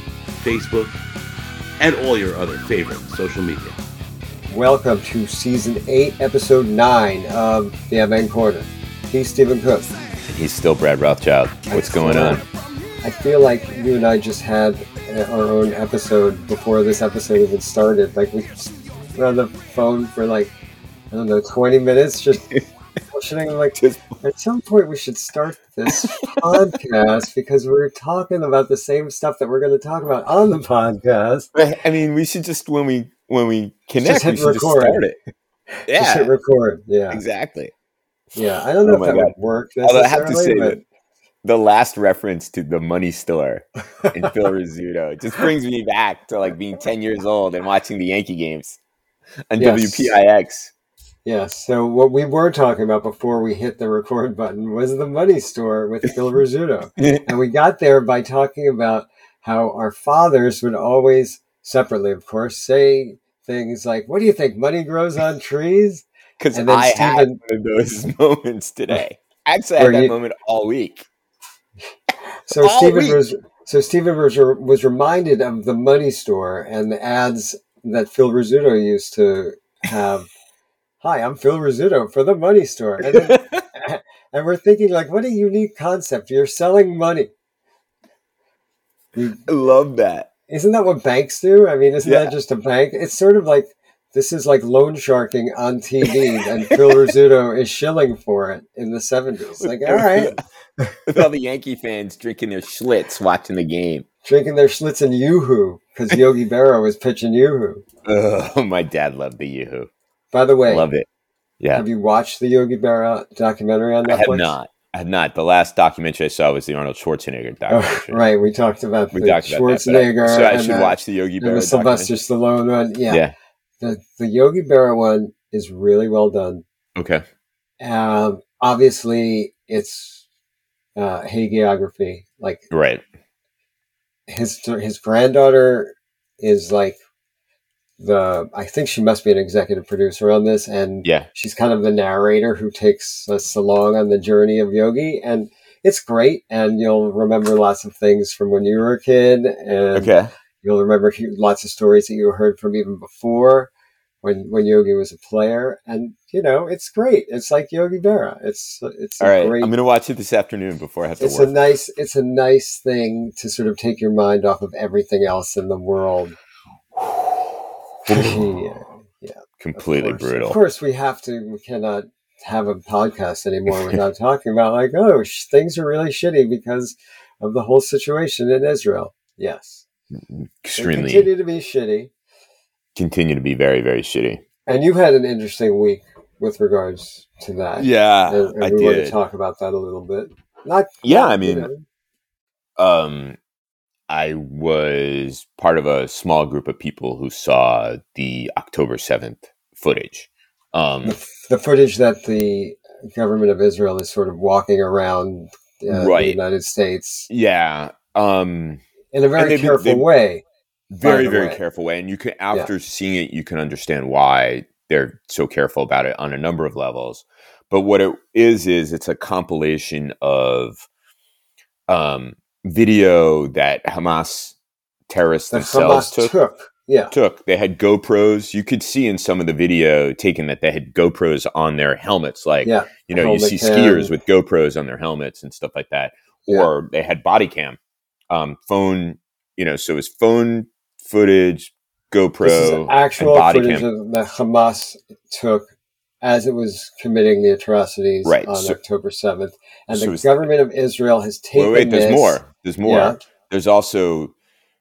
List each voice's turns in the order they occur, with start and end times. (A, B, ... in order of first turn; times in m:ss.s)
0:00.4-0:01.0 A
0:01.8-0:03.8 A
0:04.5-0:09.9 B
0:10.2-0:12.4 C
0:11.7-0:12.4 B
0:13.0-0:20.5 B
0:21.1-0:22.6 B
0:23.1-0:31.5 B
0:23.8-0:24.1 C
0:25.9-0:26.5 C
0:31.5-0:35.2 C
0:34.0-0:35.0 B
0:35.9-0:36.3 C
0:35.9-0:37.2 B
0:37.1-0:37.7 C
0:38.3-0:40.8 B
0:38.8-0:40.8 C
0:41.4-0:48.8 C
0:49.5-0:50.7 C
0:49.6-0:50.1 B
0:51.2-1:07.4 B
0:57.0-0:57.3 C
1:06.4-1:11.1 C
1:09.8-1:10.1 B
1:12.4-1:20.3 B
1:12.5-1:13.2 C
1:21.0-1:27.3 B
1:23.0-1:23.6 C
1:29.1-1:29.4 B
1:29.5-1:30.3 C
1:30.5-1:41.0 B
1:32.0-1:32.3 C
1:39.6-1:40.4 C
1:41.0-1:44.0 C
1:44.2-1:47.8 B
1:48.0-1:49.9 C
1:50.3-1:50.9 B
1:50.7-1:51.0 C
1:51.6-1:51.8 C
1:51.7-1:54.5 B
1:54.0-1:58.2 C
1:57.7-2:03.2 B
1:59.1-2:02.1 C
2:03.1-2:03.3 C
2:03.8-2:06.6 B
2:07.0-2:07.2 C
2:07.8-2:10.2 B
2:11.0-2:12.6 B
2:12.7-2:13.0 C
2:14.3-2:17.0 B
2:18.0-2:33.7 B
2:29.9-2:30.3 C
2:34.2-2:39.7 B
2:39.2-2:41.5 C
2:41.2-2:46.4 B
2:47.0-2:47.3 C
2:48.1-2:59.8 B
2:48.1-2:48.4 C
2:49.6-2:50.6 C
2:53.7-2:54.0 C
3:00.2-3:01.3 C
3:00.8-3:02.1 B
3:02.9-3:04.4 C
3:04.7-3:11.8 B
3:07.8-3:09.2 C
3:11.0-3:11.7 C
3:12.8-3:13.4 C
3:14.1-3:21.2 C
3:21.0-3:27.3 B
3:25.9-3:26.4 C
3:27.3-3:28.8 C
3:29.1-3:30.4 B
3:29.4-3:30.0 C
3:30.9-3:40.8 C
3:31.0-3:31.6 B
3:41.9-3:44.6 C
3:45.1-3:46.3 C
3:45.5-3:47.1 B
3:47.1-3:57.8 C
3:52.6-3:54.1 B
3:58.3-4:03.8 C
4:02.4-4:05.7 B
4:06.2-4:13.2 B
4:08.2-4:08.8 C
4:09.9-4:10.3 C
4:11.5-4:14.3 C